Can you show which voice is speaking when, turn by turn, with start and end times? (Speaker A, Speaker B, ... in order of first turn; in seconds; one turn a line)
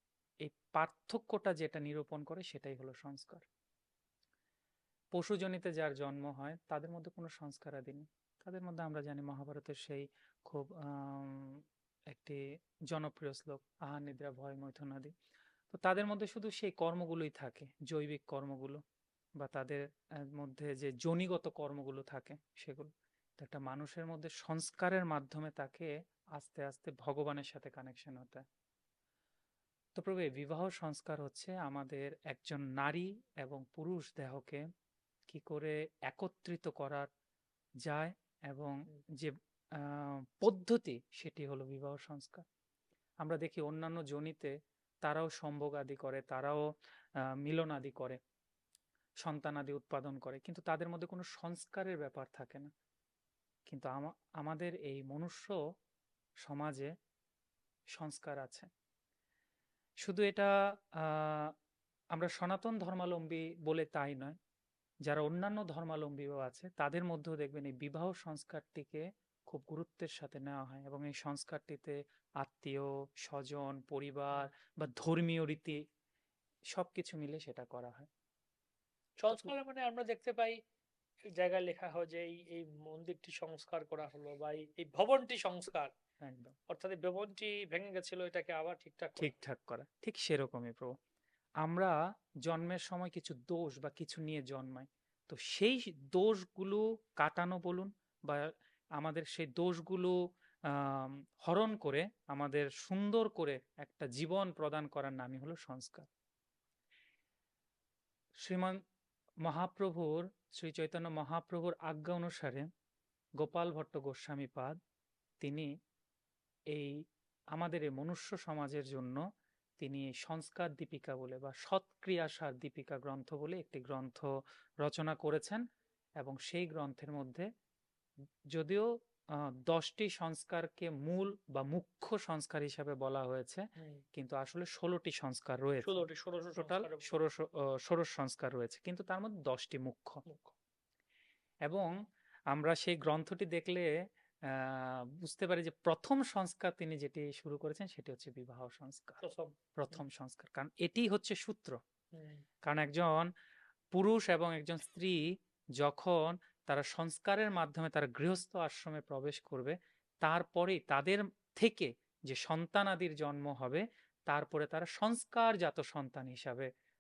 Speaker A: 0.4-3.5
Speaker A: 5.1-12.4
Speaker A: 12.9-15.1
Speaker A: 15.7-18.8
Speaker A: 19.4-28.4
Speaker A: 30.0-34.6
Speaker A: 35.3-37.1
Speaker A: 37.8-42.4
Speaker A: 43.2-44.5
Speaker A: 45.0-46.6
Speaker A: 47.4-48.2
Speaker A: 49.2-52.7
Speaker A: 53.7-55.6
Speaker A: 56.4-56.9
Speaker A: 57.9-58.7
Speaker A: 60.0-61.5
Speaker A: 62.1-64.4
Speaker A: 65.1-75.8
Speaker A: 76.7-78.1
Speaker B: 79.2-80.6
Speaker B: 81.3-85.9
Speaker A: 86.2-86.5
Speaker B: 86.7-89.3
Speaker A: 89.2-90.9
Speaker A: 91.6-100.2
Speaker A: 100.7-106.1
Speaker A: 108.4-108.8
Speaker A: 109.5-112.7
Speaker A: 113.4-114.8
Speaker A: 115.4-115.7
Speaker A: 117.5-119.2
Speaker A: 119.8-124.3
Speaker A: 124.8-125.6
Speaker A: 126.2-127.5
Speaker A: 128.5-128.9
Speaker A: 129.4-133.6
Speaker A: 134.2-136.1
Speaker B: 135.8-137.2
Speaker A: 136.6-140.2
Speaker B: 140.3-140.5
Speaker A: 141.7-141.9
Speaker A: 142.5-143.9
Speaker A: 144.5-149.2
Speaker B: 149.2-150.0
Speaker A: 149.8-151.8
Speaker B: 152.2-152.4
Speaker A: 152.7-153.3
Speaker A: 153.9-155.2
Speaker A: 155.8-166.7